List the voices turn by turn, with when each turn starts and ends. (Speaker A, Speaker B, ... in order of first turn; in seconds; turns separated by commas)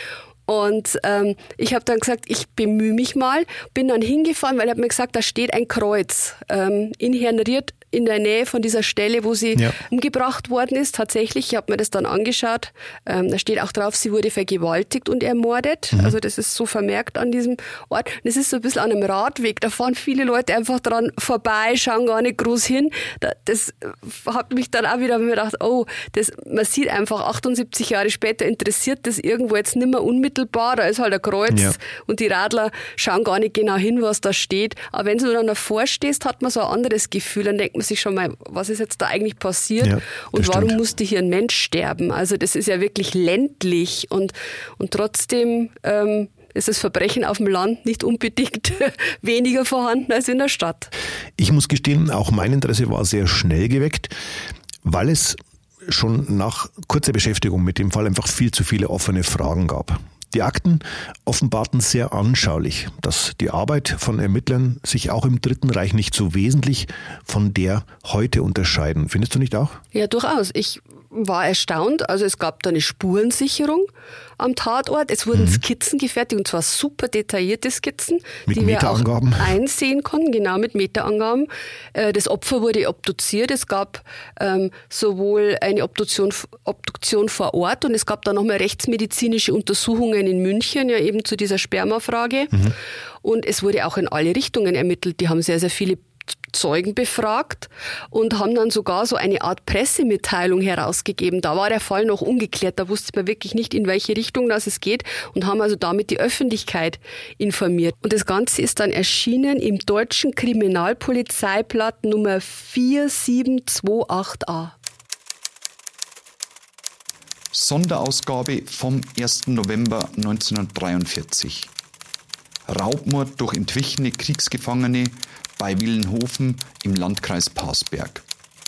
Speaker A: 0.5-50.9, Speaker B: 31.5-31.8, Speaker B: 39.8-40.8, Speaker B: 51.4-54.1, Speaker B: 54.8-69.8, Speaker A: 69.9-92.7, Speaker B: 75.3-75.6, Speaker B: 78.5-79.5, Speaker A: 93.2-114.7, Speaker C: 117.5-121.7, Speaker C: 122.7-128.2